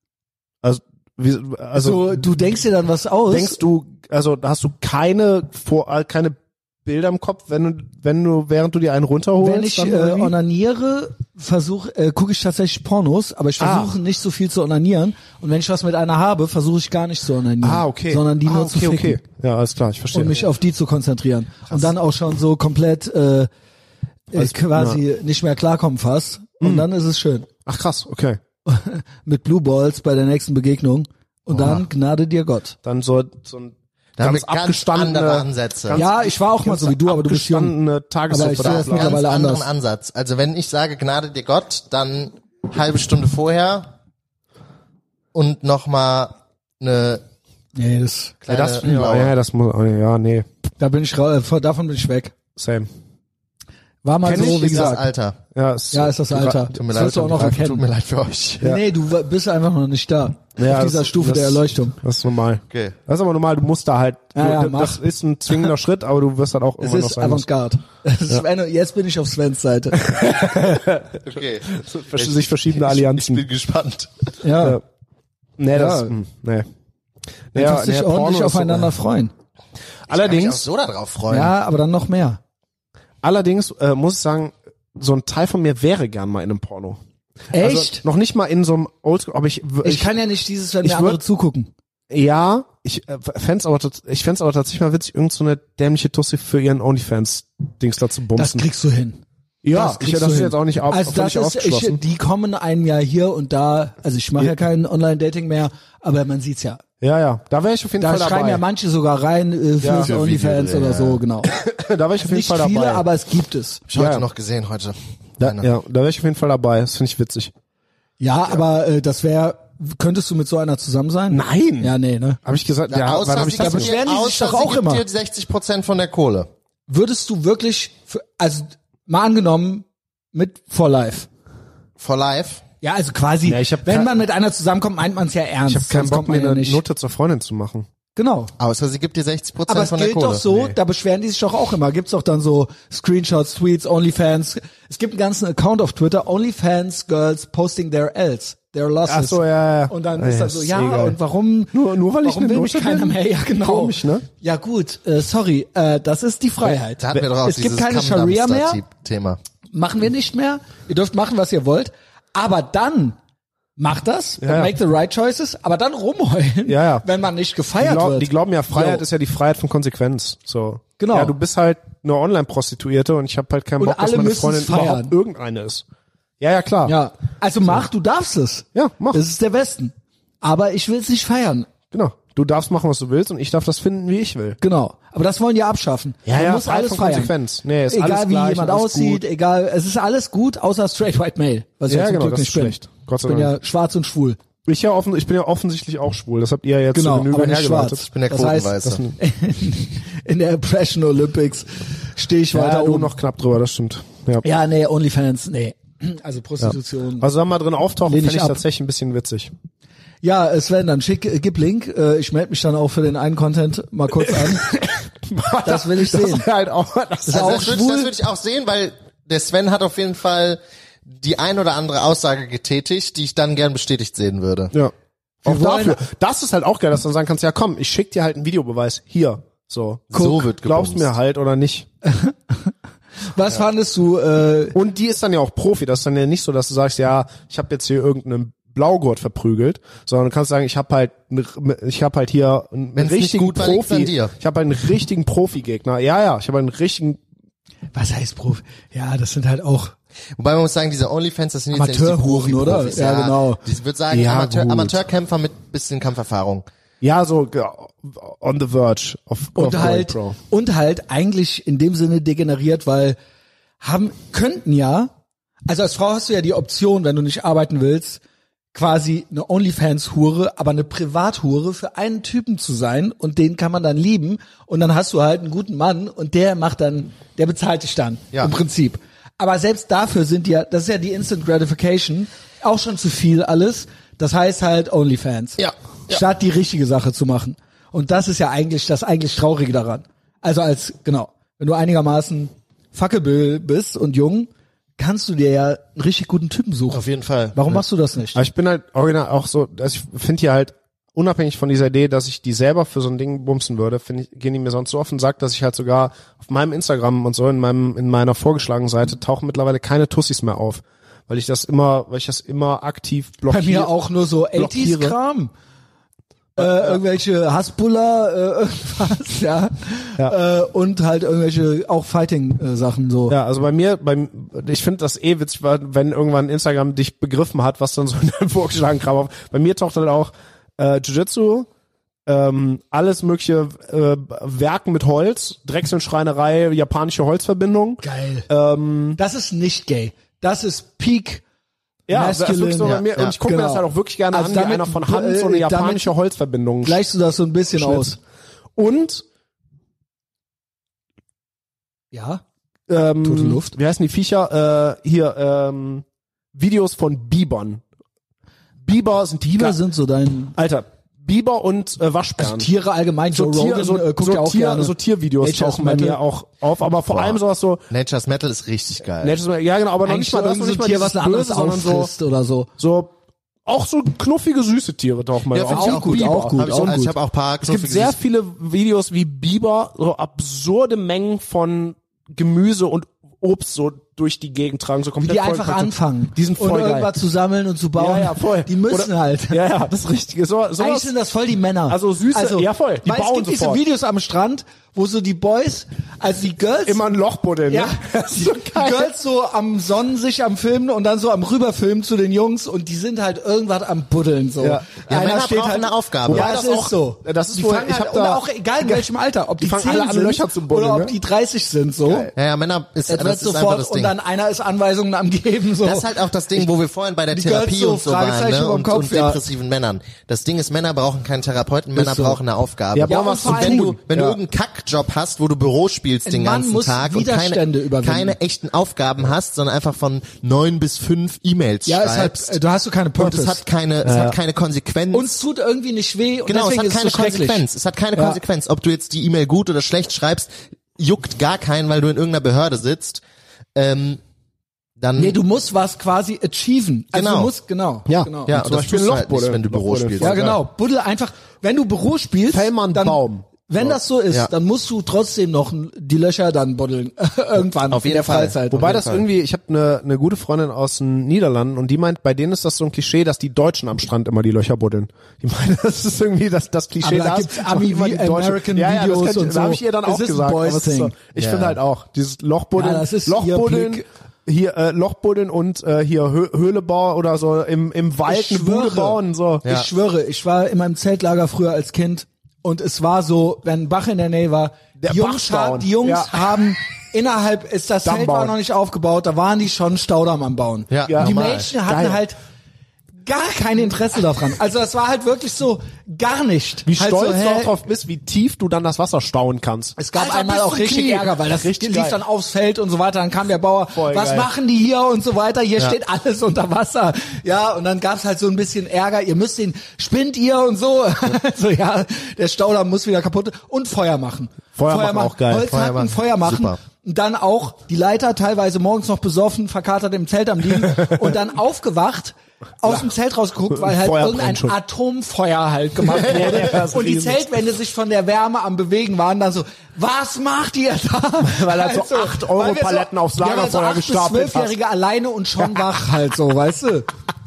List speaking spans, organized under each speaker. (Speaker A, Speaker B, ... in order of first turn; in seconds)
Speaker A: 0.6-2.1, 3.3-10.3, 13.6-13.9, 17.6-20.4, 24.3-25.0, 26.6-26.9, 27.6-28.4, 32.8-39.2, 48.5-50.5, 52.6-52.9, 54.2-55.0, 55.5-57.5, 60.6-67.5, 70.0-73.4, 75.6-76.7, 77.5-78.9, 80.1-80.6, 83.2-87.0, 87.5-90.1, 90.8-91.2, 92.1-98.7, 99.6-102.0, 107.0-108.6, 109.8-110.1, 111.4-113.1, 113.9-114.2, 115.4-117.5, 121.3-121.9, 122.4-123.9, 133.4-134.1, 135.7-137.9, 140.5-140.7, 149.1-151.2, 151.7-154.2, 164.4-164.7, 166.7-167.0, 167.8-175.8, 176.4-176.9, 178.7-179.2, 181.9-184.6, 186.2-189.2, 191.9-193.5, 194.7-198.0, 198.8-199.2, 202.5-204.4, 206.6-209.5, 214.2-217.6, 225.4-231.9, 234.7-247.2, 254.1-255.0, 257.0-260.4, 298.3-313.9, 314.5-315.1, 316.6-317.0, 323.3-331.7, 332.3-339.2, 342.1-347.0, 347.7-348.1, 348.8-349.2, 352.9-357.8, 358.8-359.8, 360.5-362.7, 363.3-367.8, 369.2-372.1, 372.8-373.1, 373.6-376.8, 377.6-387.1, 388.0-391.1, 391.9-393.8, 396.9-399.1, 404.6-404.9, 406.3-409.1, 409.6-411.1, 422.9-424.4, 434.0-434.4, 448.1-450.6, 452.5-453.9, 458.7-479.6, 485.0-486.4, 488.0-488.5, 491.1-492.2, 496.9-502.2, 503.9-504.5, 514.8-515.7, 523.7-524.8, 526.1-527.5, 531.4-534.7
Speaker B: 1.7-3.6, 9.4-19.2, 20.1-23.5, 24.3-27.5, 28.6-32.8, 35.9-37.7, 38.3-39.7, 47.8-48.4, 50.8-52.3, 54.0-55.0, 55.9-57.8, 58.6-62.0, 64.3-65.0, 66.8-70.1, 74.4-74.8, 75.7-76.1, 77.5-79.3, 81.3-82.4, 87.5-88.0, 89.8-91.7, 98.3-99.2, 99.7-106.8, 108.0-111.5, 112.2-113.8, 118.2-122.4, 123.6-125.0, 126.9-131.3, 132.8-136.8, 138.2-138.5, 139.7-158.8, 159.7-163.2, 163.8-169.0, 171.0-171.3, 173.8-175.1, 176.8-181.7, 184.6-187.3, 187.9-194.4, 196.9-203.1, 204.4-207.3, 208.1-208.6, 210.2-214.7, 215.6-216.5, 217.2-218.1, 225.4-226.0, 230.1-230.4, 232.0-232.7, 233.3-234.8, 247.9-249.9, 251.7-253.6, 259.6-263.2, 263.8-265.1, 265.7-268.2, 268.7-297.0, 297.5-298.4, 313.5-315.5, 316.6-323.4, 338.0-338.5, 339.2-341.4, 342.1-346.1, 346.8-348.2, 352.1-352.4, 353.2-353.7, 359.5-360.5, 362.4-366.2, 370.0-372.7, 375.7-377.1, 385.2-389.6, 390.8-397.0, 397.7-412.3, 413.1-416.1, 417.3-419.4, 421.9-422.4, 423.1-423.9, 426.2-428.4, 431.9-433.6, 435.1-438.4, 445.2-448.5, 450.2-459.0, 467.0-471.1, 472.8-474.0, 478.2-492.4, 493.2-497.7, 500.0-537.1
Speaker C: 34.2-36.0, 38.4-43.9, 45.3-47.2, 48.4-49.3, 54.3-55.4, 56.8-58.6, 62.7-63.0, 71.2-74.3, 80.1-81.5, 110.0-111.2, 113.9-115.7, 122.9-126.5, 132.0-132.6, 138.6-140.4, 157.0-159.4, 197.9-199.0, 217.3-224.7, 230.1-231.1, 242.9-244.3, 250.4-256.6, 285.6-286.2, 296.9-297.6, 342.8-343.3, 367.1-369.4, 375.5-378.2, 405.1-406.5, 412.3-414.1, 415.8-432.6, 433.2-435.3, 436.4-443.2, 443.7-444.2, 445.0-445.4, 447.1-447.5, 448.5-450.5, 457.9-459.2, 471.4-471.8, 479.6-479.9, 490.9-491.7, 515.7-516.8